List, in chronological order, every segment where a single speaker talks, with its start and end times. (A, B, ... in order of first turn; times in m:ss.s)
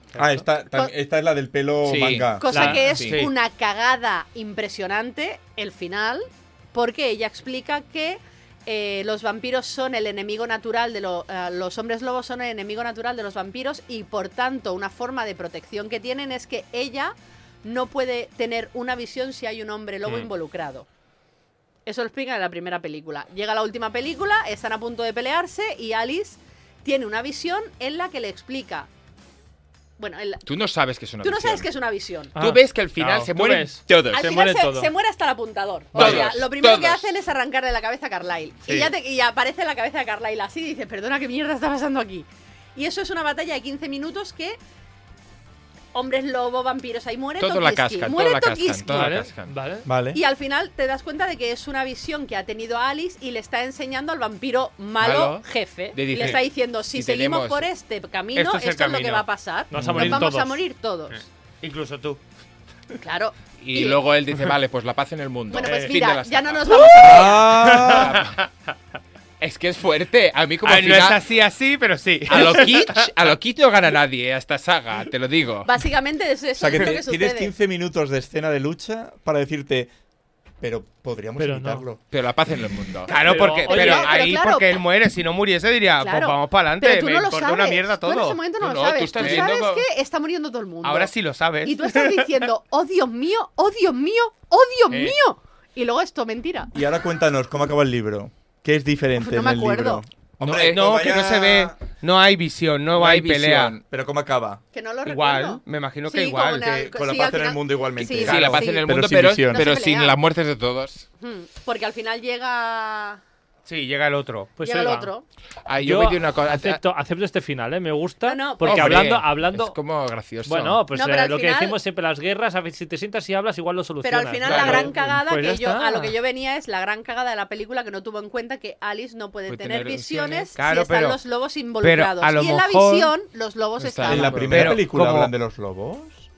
0:00.1-0:00.4 A
0:00.2-0:02.8 B
0:01.8-0:03.3 C
0:02.4-0:20.9 D
0:02.5-0:03.1 A
0:03.0-0:03.3 E
0:21.9-0:28.9 D
0:30.0-0:30.4 D
0:30.4-0:31.7 C
0:31.2-0:32.3 D
0:32.3-0:34.9 A
0:32.4-0:34.1 C
0:34.1-0:44.6 D
0:35.9-0:37.1 C
0:45.9-0:49.3 D
0:47.4-0:49.6 C
0:48.9-0:49.9 A
0:49.9-0:50.2 B
0:50.1-1:01.2 D
0:55.0-0:57.7 C
0:58.3-0:59.3 E
0:59.7-1:00.6 A
0:59.7-1:00.2 C
1:01.6-1:02.2 E
1:03.0-1:04.0 D
1:03.6-1:07.3 C
1:05.5-1:07.6 D
1:05.6-1:05.9 E
1:07.0-1:08.2 B
1:07.6-1:08.3 E
1:07.9-1:08.4 C
1:09.4-1:11.2 C
1:10.6-1:13.1 E
1:12.3-1:15.7 C
1:15.6-1:17.5 D
1:16.6-1:19.9 B
1:20.6-1:22.0 B
1:21.4-1:21.8 A
1:22.1-1:23.6 C
1:23.1-1:28.4 E
1:23.1-1:24.7 D
1:23.2-1:24.1 A
1:26.0-1:31.1 D
1:28.6-1:29.9 C
1:29.2-1:29.5 E
1:30.8-1:32.5 E
1:31.6-1:36.7 D
1:34.9-1:35.2 E
1:36.7-1:41.8 B
1:39.2-1:40.0 D
1:40.4-1:43.8 E
1:43.0-1:43.8 C
1:43.9-1:44.6 B
1:44.7-1:48.8 D
1:45.0-1:46.8 E
1:46.6-1:49.7 B
1:48.1-1:51.0 C
1:49.5-1:50.2 D
1:51.2-1:53.2 D
1:53.6-1:54.6 E
1:54.6-1:55.1 A
1:54.6-1:55.2 D
1:55.6-1:56.8 C
1:55.8-1:59.8 A
1:58.2-1:59.1 D
1:58.6-2:00.8 C
2:00.4-2:06.2 A
2:00.9-2:01.8 D
2:04.0-2:14.6 D
2:04.4-2:04.8 E
2:04.4-2:05.1 C
2:09.5-2:10.5 C
2:10.6-2:11.2 E
2:11.8-2:13.1 E
2:13.8-2:14.7 C
2:14.0-2:16.3 B
2:14.5-2:15.3 E